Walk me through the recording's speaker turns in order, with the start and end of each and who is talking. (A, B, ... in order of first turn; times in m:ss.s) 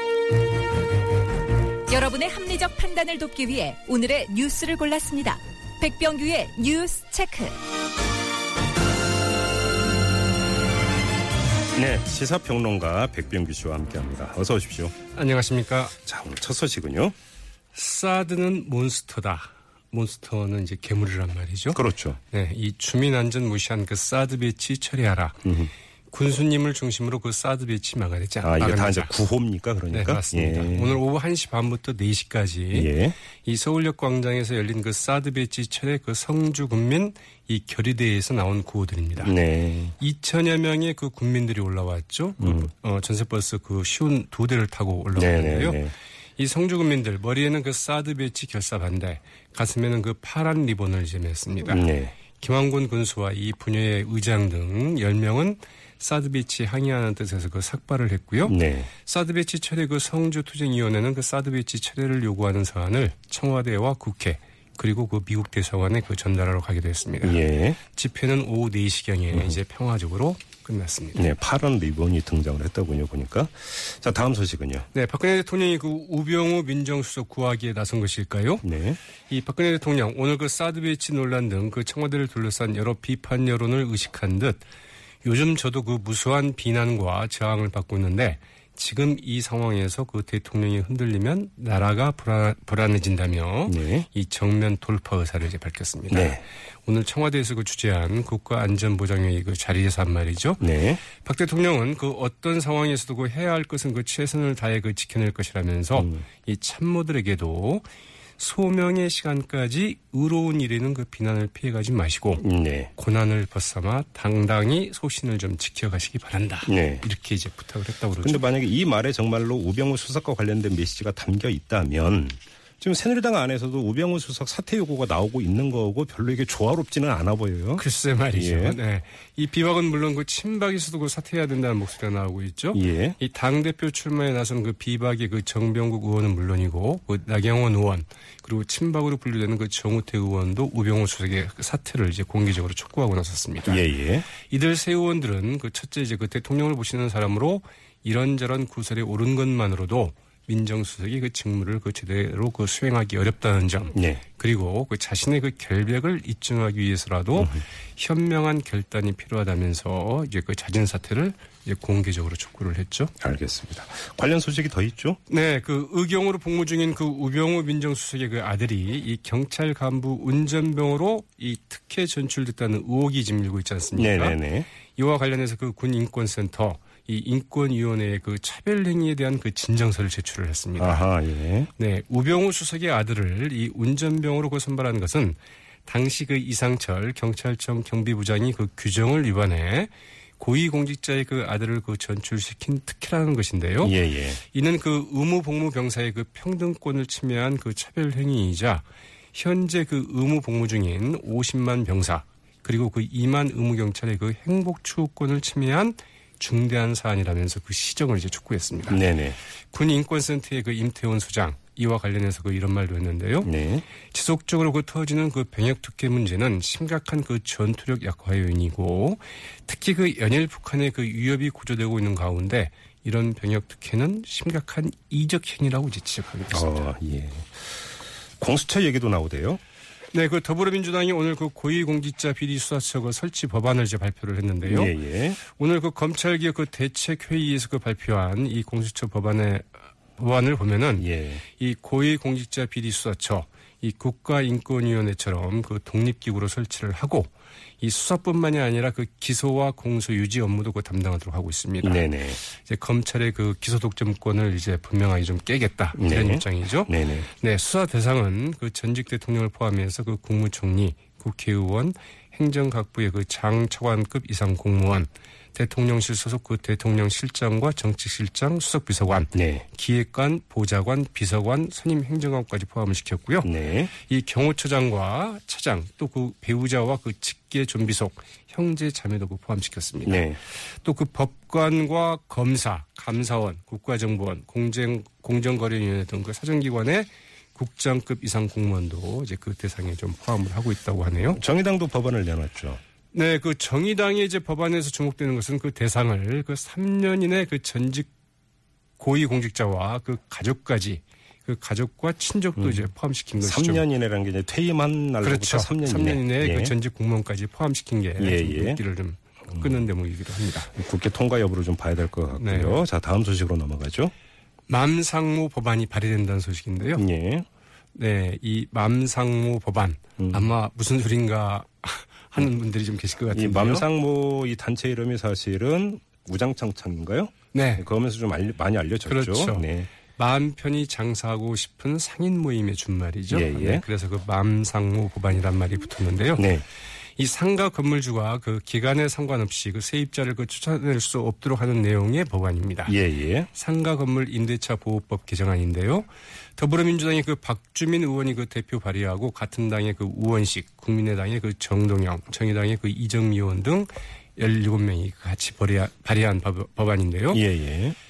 0:01.9-0:07.6 A
0:11.7-0:14.9 B
0:15.1-0:15.9 C
0:16.0-0:17.1 B
0:17.7-0:25.5 C
0:21.7-0:22.2 B
0:25.4-0:25.7 B
0:26.1-0:29.1 C
0:28.4-0:31.0 B
0:29.9-0:39.4 C
0:32.7-0:33.2 B
0:39.2-0:40.0 B
0:40.0-0:45.8 C
0:42.4-0:42.7 B
0:45.1-0:45.9 B
0:46.4-1:11.2 C
0:51.7-0:52.1 B
0:58.4-0:58.9 B
1:07.2-1:07.8 B
1:11.1-1:14.9 B
1:14.9-1:18.6 C
1:18.6-1:19.0 B
1:19.3-1:24.6 C
1:25.2-1:47.8 C
1:33.7-1:34.1 B
1:36.1-1:36.4 B
1:40.6-1:41.0 B
1:46.0-1:46.2 B
1:48.4-1:58.4 C
1:52.4-1:52.9 B
1:56.7-1:57.0 B
1:58.2-2:08.8 B
2:07.8-2:43.1 C
2:12.7-2:13.2 B
2:23.7-2:24.3 B
2:33.9-2:34.2 B
2:43.2-2:45.2 B
2:45.3-2:54.4 C
2:53.9-2:54.7 B
2:54.9-3:01.0 C
3:00.8-3:01.7 B
3:01.8-3:29.0 C
3:13.8-3:14.4 B
3:28.9-3:29.4 B
3:29.7-3:33.5 C
3:33.4-3:33.8 B
3:34.0-3:46.9 C
3:46.5-3:49.6 B
3:50.1-4:51.4 C
3:54.6-3:55.4 B
4:01.0-4:01.4 B
4:11.8-4:12.4 B
4:16.0-4:17.3 B
4:29.3-4:29.6 B
4:33.4-4:33.9 B
4:40.0-4:40.4 B
4:51.3-4:52.8 B
4:53.1-4:58.1 C
4:59.0-5:03.8 C
5:02.6-5:02.9 B
5:03.4-5:06.7 B
5:05.2-5:10.7 C
5:08.2-5:08.8 B
5:10.7-5:14.1 B
5:12.3-5:12.8 C
5:14.7-5:17.0 C
5:17.0-5:17.5 B
5:17.9-5:23.9 C
5:20.2-5:20.5 B
5:23.3-5:29.9 B
5:27.5-5:27.8 C
5:29.0-5:36.6 C
5:33.3-5:33.8 B
5:36.4-5:36.6 B
5:37.2-5:43.0 C
5:42.8-5:43.5 B
5:43.5-5:57.4 C
5:57.3-5:58.0 B